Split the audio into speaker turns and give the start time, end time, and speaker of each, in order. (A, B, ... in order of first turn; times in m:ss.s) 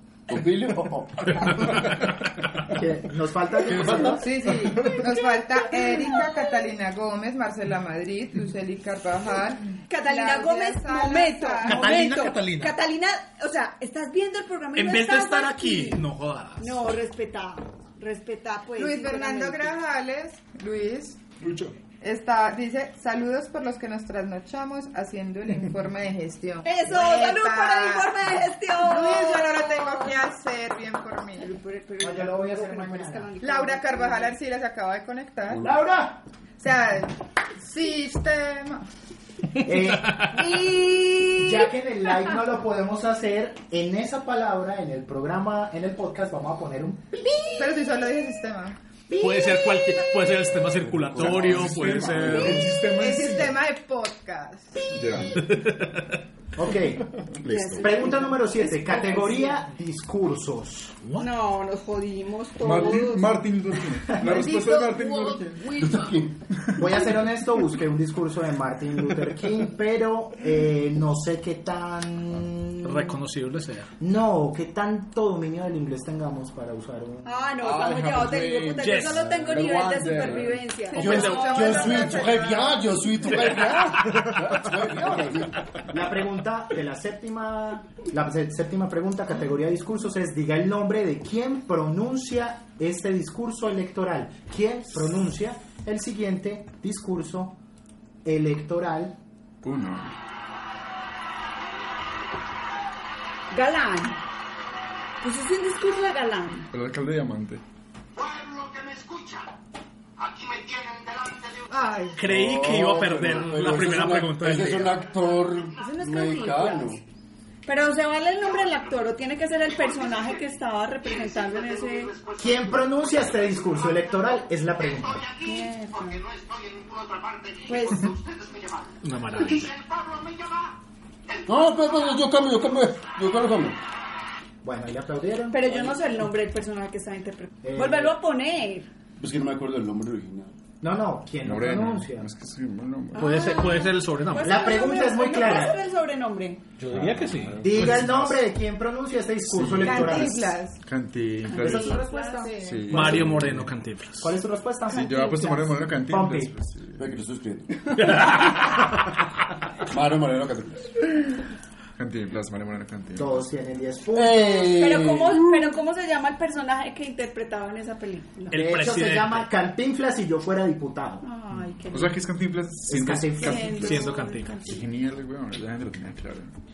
0:00.3-0:01.8 A
0:01.7-0:02.1 B
0:02.7-0:04.3 C
0:03.7-0:04.2 D
0:04.0-0:12.0 E
0:04.8-0:05.1 B
0:09.9-0:16.0 F
0:11.6-0:12.8 D
0:14.8-0:16.8 D
0:16.6-0:19.7 F
0:18.8-0:21.2 E
0:21.4-0:21.8 B
0:22.0-0:31.5 E
0:26.6-0:30.2 F
0:31.4-0:34.4 F
0:32.0-0:33.3 C
0:33.4-0:35.7 E
0:35.6-0:36.2 C
0:36.6-0:38.9 E
0:39.6-0:40.7 C
0:40.0-0:40.3 D
0:40.3-0:41.7 F
0:41.3-0:47.7 C
0:47.6-0:48.8 E
0:49.1-0:49.8 C
0:49.1-0:52.7 D
0:51.1-0:52.6 A
0:51.1-0:53.6 B
0:52.8-0:54.9 E
0:54.9-0:55.7 B
0:55.4-0:56.2 D
0:56.6-0:57.1 C
0:57.4-0:59.6 F
0:57.7-1:01.0 C
1:01.2-1:03.4 F
1:02.6-1:05.8 B
1:04.2-1:06.1 E
1:05.8-1:06.4 A
1:06.5-1:06.8 B
1:06.8-1:13.2 C
1:12.8-1:13.9 D
1:14.0-1:17.5 C
1:17.2-1:22.2 F
1:17.6-1:20.7 B
1:18.8-1:19.3 D
1:19.4-1:20.4 A
1:20.9-1:23.0 E
1:21.0-1:25.7 A
1:21.0-1:21.7 D
1:24.0-1:25.2 B
1:25.9-1:37.6 C
1:38.2-1:39.2 C
1:39.6-1:40.1 B
1:43.5-1:44.2 F
1:45.2-1:46.7 F
1:46.7-1:47.6 B
1:48.2-1:49.5 G
1:50.2-1:52.1 G
1:51.7-1:52.2 E
1:52.2-1:55.0 D
1:52.2-1:57.0 A
1:55.1-1:56.0 G
1:55.8-1:57.0 F
1:57.6-2:02.1 F
1:58.4-1:59.0 G
1:59.6-2:12.1 G
2:02.4-2:05.2 C
2:05.4-2:06.2 F
2:07.7-2:08.1 F
2:09.0-2:09.7 D
2:11.5-2:13.8 A
2:14.6-2:16.0 C
2:15.5-2:18.9 F
2:17.6-2:18.2 C
2:19.2-2:20.5 A
2:20.8-2:22.3 C
2:21.4-2:23.7 B
2:23.1-2:24.8 D
2:23.1-2:26.6 F
2:24.4-2:25.8 C
2:26.8-2:28.0 D
2:26.9-2:28.4 B
2:27.6-2:30.6 C
2:29.5-2:33.7 B
2:29.8-2:30.8 E
2:31.4-2:32.5 F
2:31.6-2:33.2 E
2:31.6-2:32.0 C
2:32.9-2:34.4 D
2:34.2-2:36.5 C
2:34.9-2:37.1 B
2:37.0-2:38.4 A
2:38.0-2:38.9 D
2:39.9-2:40.9 A
2:42.0-2:43.4 B
2:43.2-2:44.9 C
2:44.1-2:45.6 A
2:44.7-2:48.6 F
2:48.5-2:49.5 D
2:48.5-2:51.2 C
2:51.2-2:52.2 F
2:51.9-2:56.5 B
2:52.9-2:53.8 C
2:53.4-2:54.8 F
2:53.7-2:54.8 D